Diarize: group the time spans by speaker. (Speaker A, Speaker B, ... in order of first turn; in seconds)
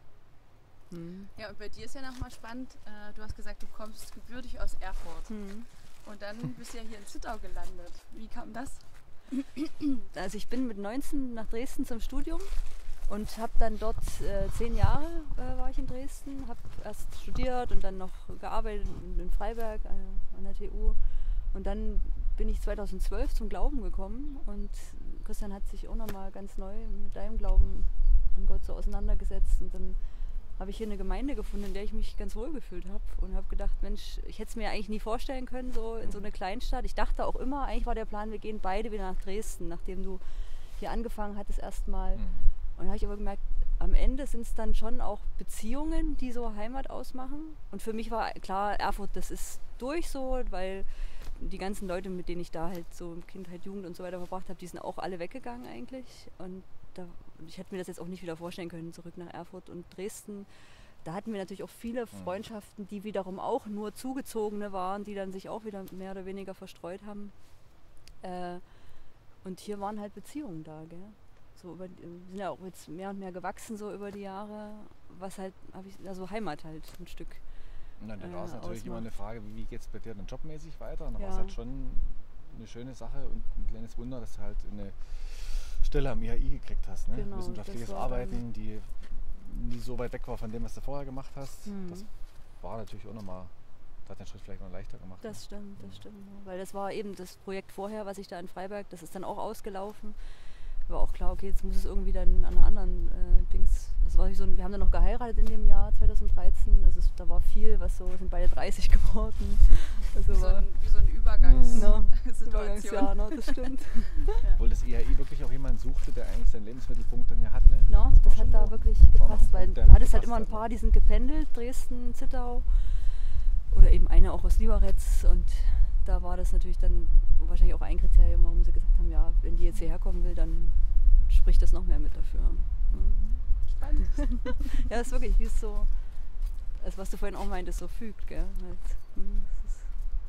Speaker A: 0.9-1.3, 5.3-5.7, 10.1-12.5, 13.1-21.0, 21.5-30.0, 30.6-67.4, 68.2-68.7, 69.4-77.4, 78.2-79.0, 81.2-81.6, 87.1-88.5, 91.7-92.1, 95.2-100.2, 100.9-110.7, 111.7-114.4, 117.9-123.0, 123.7-133.4, 134.3-135.9, 136.8-139.9
Speaker B: 1.4-5.3, 6.0-8.8, 110.3-113.7, 114.2-114.6, 133.7-134.9
Speaker C: 42.1-42.5, 78.0-92.1, 92.6-93.5, 94.1-96.0, 111.4-112.0, 114.6-120.6